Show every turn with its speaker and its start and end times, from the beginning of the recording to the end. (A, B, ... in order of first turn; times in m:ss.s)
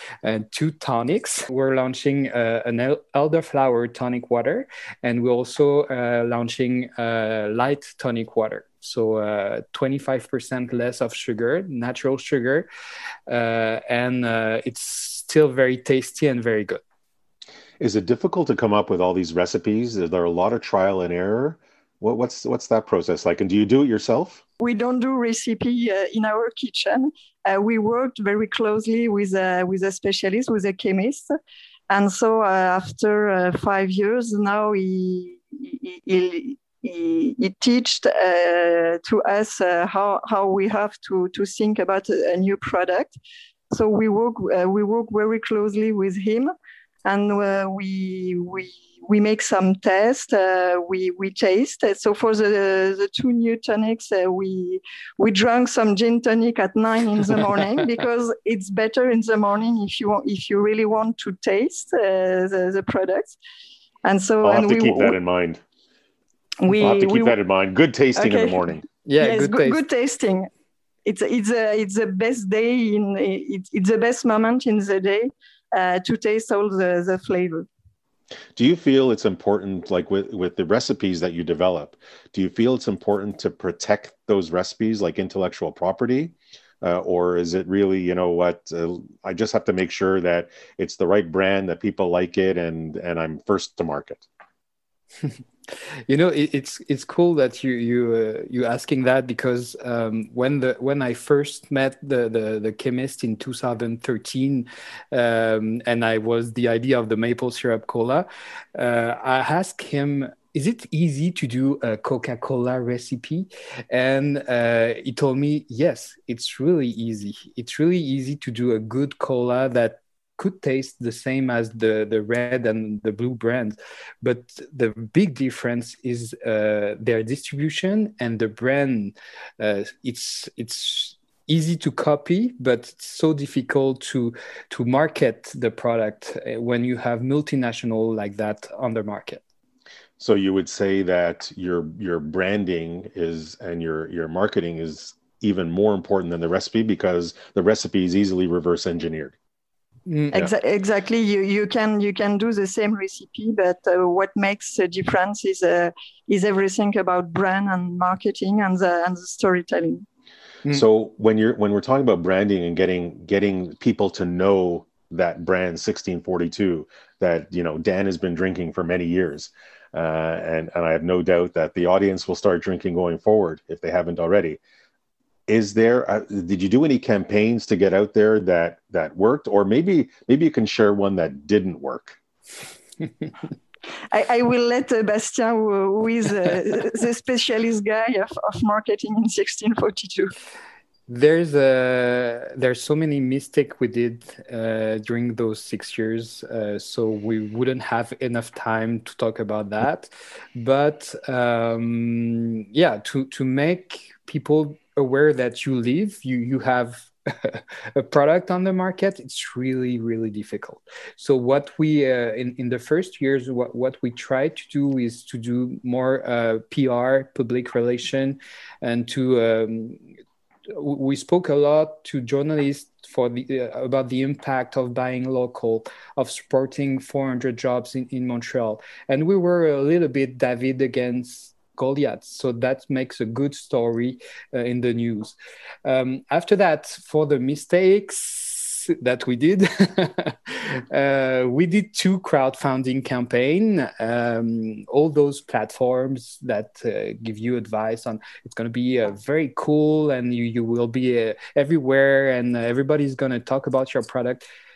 0:00.2-0:12.7 A
0:13.3-0:16.8 A
0:17.8-0:24.4 B
0:24.6-0:31.3 C
0:31.9-0:43.2 C
0:43.7-0:46.5 C
0:47.0-1:03.4 C
1:04.0-1:05.2 C
1:04.4-1:05.6 B
1:06.6-1:07.4 C
1:06.8-1:08.8 B
1:08.2-1:08.6 C
1:09.1-1:09.8 A
1:09.2-1:10.5 C
1:11.0-1:17.7 C
1:18.6-1:34.3 B
1:36.1-2:19.4 A
2:20.2-2:29.4 B
2:30.1-2:30.4 A
2:30.3-2:40.0 C
2:40.7-2:54.6 B
2:55.5-3:02.2 B
3:04.1-3:10.3 C
3:11.1-3:40.0 A
3:40.7-4:14.5 A